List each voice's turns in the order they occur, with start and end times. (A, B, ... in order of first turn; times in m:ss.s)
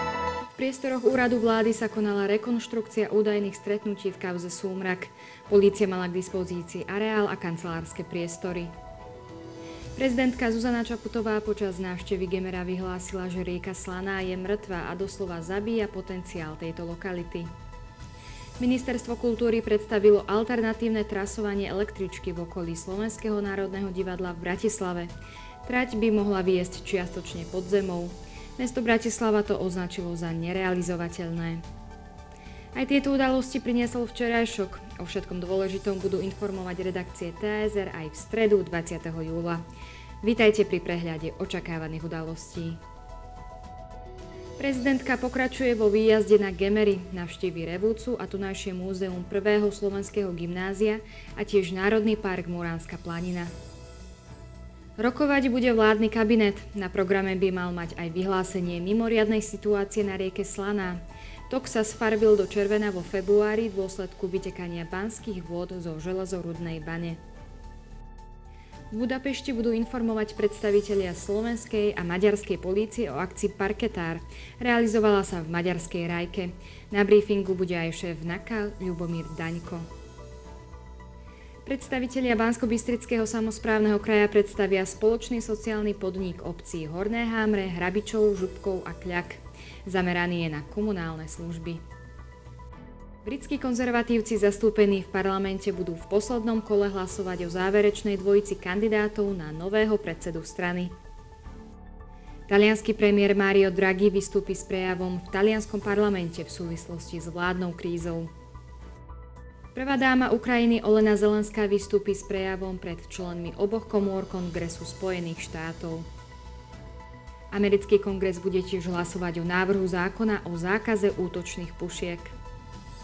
0:00.5-0:08.7 A
0:10.0-0:17.5 A
0:18.6-0:25.1 A
0:25.6-0:31.6 A
0:32.7-0:39.6 A
0:40.2-0:42.8 A
0:44.6-0:53.5 A
0:55.0-1:07.2 A
1:08.9-1:19.9 A
1:21.6-1:31.8 A
1:33.2-1:40.9 A
1:42.5-1:48.3 A
1:49.8-1:56.1 A
1:57.5-2:02.4 A